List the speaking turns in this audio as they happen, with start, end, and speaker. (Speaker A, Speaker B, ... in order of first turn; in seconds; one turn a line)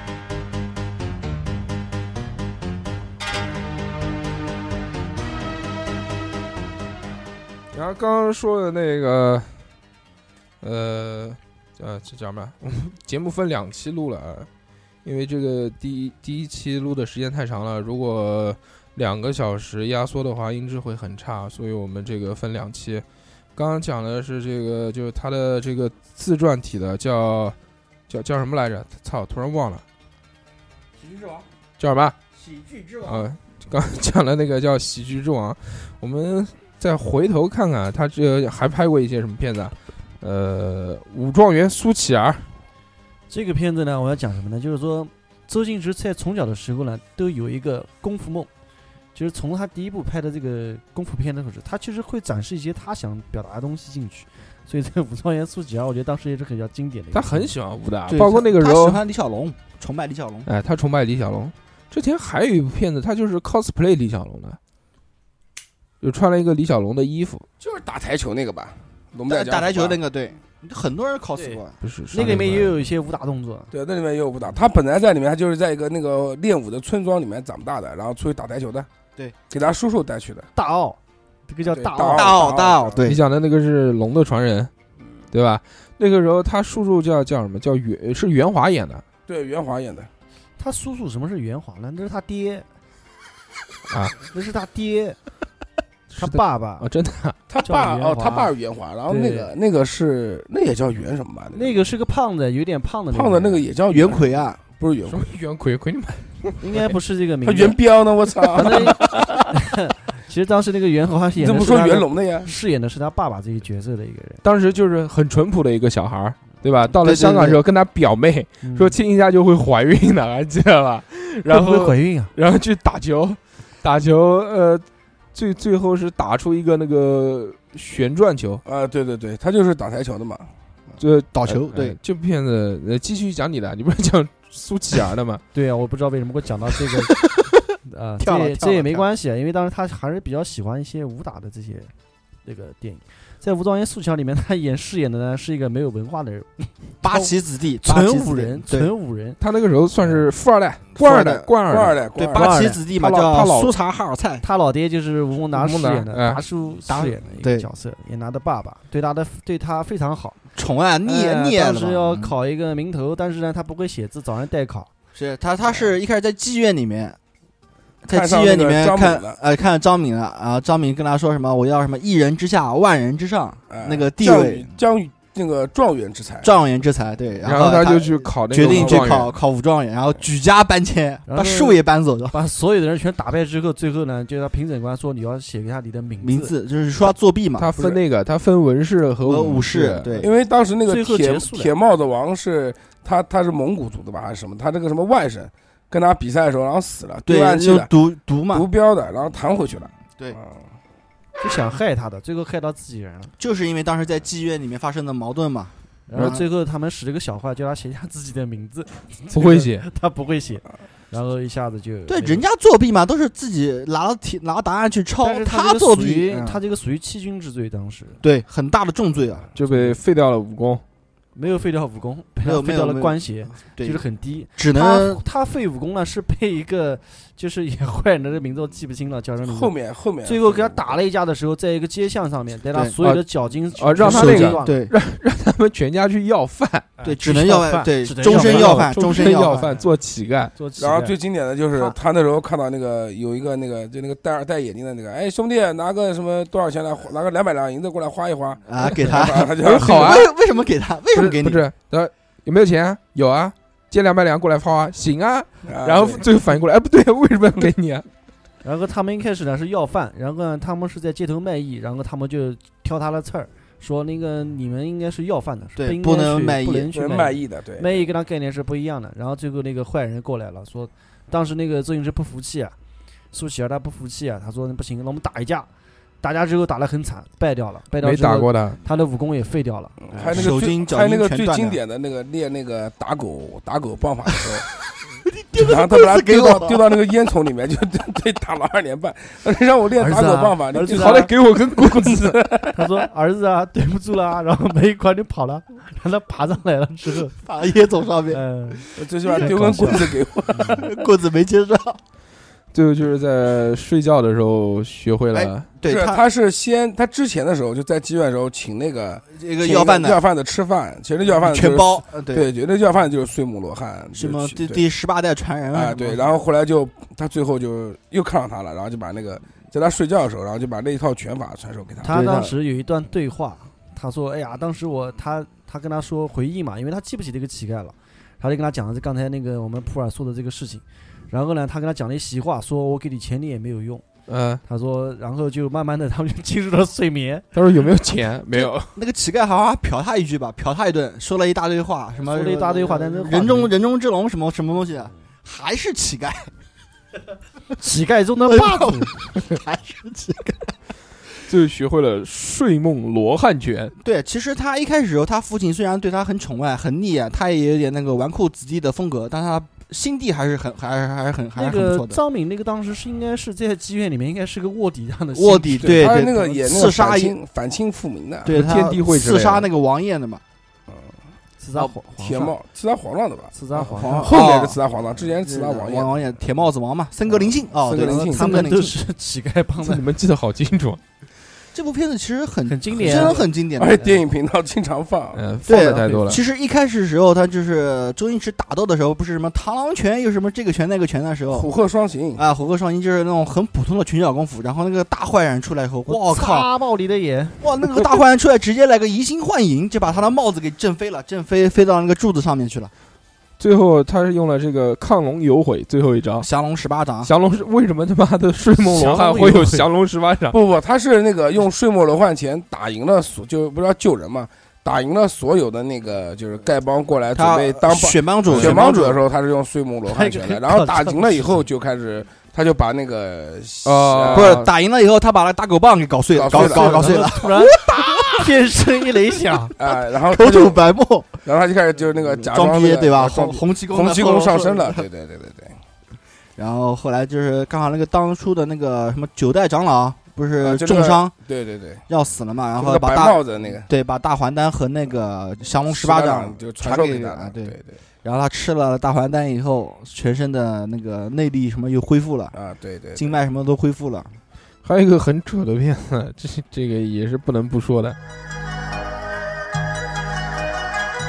Speaker A: 7.7-9.5
Speaker A: 10.6-14.5
Speaker A: 15.0-27.6
Speaker A: 28.1-29.8
Speaker B: 31.0-31.4
Speaker A: 31.8-32.1
Speaker B: 32.4-33.2
Speaker A: 33.0-42.5
Speaker C: 43.3-48.5
Speaker C: 49.1-57.5
Speaker A: 57.1-59.0
Speaker B: 58.1-60.5
Speaker A: 60.5-64.6
Speaker A: 66.0-67.5
Speaker D: 67.6-70.0
Speaker B: 69.3-71.8
Speaker C: 71.3-71.6
Speaker A: 71.8-72.8
Speaker C: 72.1-73.7
Speaker D: 73.7-78.9
Speaker D: 79.5-80.5
Speaker C: 80.5-82.5
Speaker D: 81.7-83.0
Speaker B: 82.1-83.2
Speaker A: 83.0-84.7
Speaker A: 85.3-89.0
Speaker D: 89.3-90.1
Speaker C: 90.6-92.7
Speaker A: 93.9-94.2
Speaker C: 94.3-95.2
Speaker A: 96.1-97.4
Speaker C: 96.1-96.9
Speaker D: 97.5-101.7
Speaker C: 97.6-98.5
Speaker C: 99.1-99.5
Speaker C: 101.5-103.6
Speaker D: 103.1-105.2
Speaker B: 103.9-104.6
Speaker A: 105.1-106.6
Speaker C: 106.6-107.8
Speaker D: 107.4-109.0
Speaker C: 108.5-114.4
Speaker D: 111.4-112.5
Speaker A: 114.4-128.6
Speaker B: 117.0-117.6
Speaker C: 118.6-119.0
Speaker C: 121.5-122.3
Speaker D: 128.6-130.5
Speaker A: 131.0-135.4
Speaker B: 131.3-131.9
Speaker C: 135.5-137.2
Speaker C: 137.8-141.9
Speaker B: 138.2-139.1
Speaker C: 142.4-149.4
Speaker B: 147.0-148.9
Speaker A: 149.4-152.0
Speaker B: 150.9-151.5
Speaker D: 151.7-152.5
Speaker B: 152.1-154.4
Speaker C: 152.3-152.8
Speaker A: 152.9-153.7
Speaker C: 154.4-160.4
Speaker A: 155.5-156.4
Speaker B: 156.9-157.7
Speaker B: 160.5-162.3
Speaker C: 161.0-164.9
Speaker B: 165.1-167.2
Speaker B: 168.0-174.7
Speaker D: 168.1-169.4
Speaker D: 173.7-176.5
Speaker B: 176.4-182.3
Speaker A: 177.4-179.3
Speaker D: 178.7-179.1
Speaker C: 181.3-181.8
Speaker C: 182.3-186.5
Speaker B: 186.2-188.0
Speaker A: 187.6-190.2
Speaker B: 189.2-190.3
Speaker D: 190.2-197.9
Speaker C: 190.9-191.7
Speaker B: 197.3-198.7
Speaker D: 198.5-200.6
Speaker C: 201.4-203.3
Speaker B: 203.4-206.4
Speaker C: 206.1-212.4
Speaker A: 209.3-209.8
Speaker B: 212.1-216.6
Speaker C: 215.2-218.2
Speaker B: 218.2-219.5
Speaker A: 219.5-220.8
Speaker C: 219.6-220.0
Speaker C: 221.3-229.7
Speaker B: 222.4-224.0
Speaker B: 224.6-225.2
Speaker D: 229.4-230.9
Speaker C: 230.2-234.8
Speaker A: 233.0-236.9
Speaker B: 234.0-234.9
Speaker C: 237.0-239.9
Speaker B: 237.0-239.7
Speaker A: 238.2-240.5
Speaker C: 240.6-241.1
Speaker D: 240.8-250.2
Speaker B: 248.7-251.6
Speaker A: 249.6-250.3
Speaker A: 251.1-258.1
Speaker D: 255.7-256.2
Speaker C: 258.6-272.8
Speaker B: 265.8-266.9
Speaker D: 266.9-268.1
Speaker C: 273.3-275.7
Speaker C: 276.2-280.4
Speaker A: 278.0-278.8
Speaker D: 280.1-284.6
Speaker B: 280.2-281.8
Speaker B: 285.3-286.9
Speaker D: 285.6-291.3
Speaker C: 290.0-291.3
Speaker A: 290.7-292.6
Speaker D: 291.8-292.8
Speaker C: 292.7-297.4
Speaker B: 297.4-302.0
Speaker C: 298.3-300.0
Speaker D: 299.0-300.9
Speaker A: 302.7-305.7
Speaker B: 305.3-306.2
Speaker D: 305.8-314.8
Speaker B: 309.3-310.2
Speaker B: 311.3-312.4
Speaker B: 314.1-316.2
Speaker D: 315.7-322.1
Speaker C: 322.0-334.0
Speaker B: 322.1-322.5
Speaker A: 334.3-334.6
Speaker C: 334.6-337.5
Speaker A: 337.5-338.9
Speaker B: 338.5-346.5
Speaker C: 342.2-343.7
Speaker C: 347.8-349.1
Speaker B: 348.5-350.7
Speaker A: 351.5-353.9
Speaker B: 354.0-362.2
Speaker C: 361.6-366.1
Speaker B: 365.3-367.3
Speaker D: 365.9-368.5
Speaker B: 368.4-370.4
Speaker A: 368.4-369.7
Speaker C: 371.6-372.5
Speaker D: 372.2-373.5
Speaker C: 373.5-374.4
Speaker B: 373.9-374.8
Speaker D: 374.2-376.2
Speaker B: 375.4-378.9
Speaker D: 377.7-378.7
Speaker C: 377.9-380.0
Speaker A: 379.8-381.0
Speaker B: 381.7-384.1
Speaker C: 382.7-383.5
Speaker D: 383.0-385.4
Speaker A: 385.3-386.4
Speaker B: 385.7-391.7
Speaker C: 386.0-386.3
Speaker D: 391.5-392.4
Speaker B: 392.4-396.7
Speaker C: 396.1-397.6
Speaker B: 397.6-402.9
Speaker A: 403.6-406.5
Speaker B: 406.4-407.3
Speaker A: 407.2-410.6
Speaker C: 408.8-409.9
Speaker D: 410.5-424.6
Speaker B: 417.4-419.2
Speaker A: 418.5-418.8
Speaker C: 420.1-421.6
Speaker A: 423.8-424.7
Speaker B: 424.3-428.3
Speaker D: 426.3-427.4
Speaker C: 426.5-429.7
Speaker D: 429.8-430.8
Speaker B: 429.9-431.4
Speaker D: 431.4-435.8
Speaker B: 432.2-435.1
Speaker B: 436.6-441.3
Speaker D: 440.6-442.0
Speaker B: 442.1-452.5
Speaker D: 442.8-443.9
Speaker D: 445.9-448.0
Speaker D: 452.5-453.4
Speaker B: 453.1-454.3
Speaker A: 454.8-458.2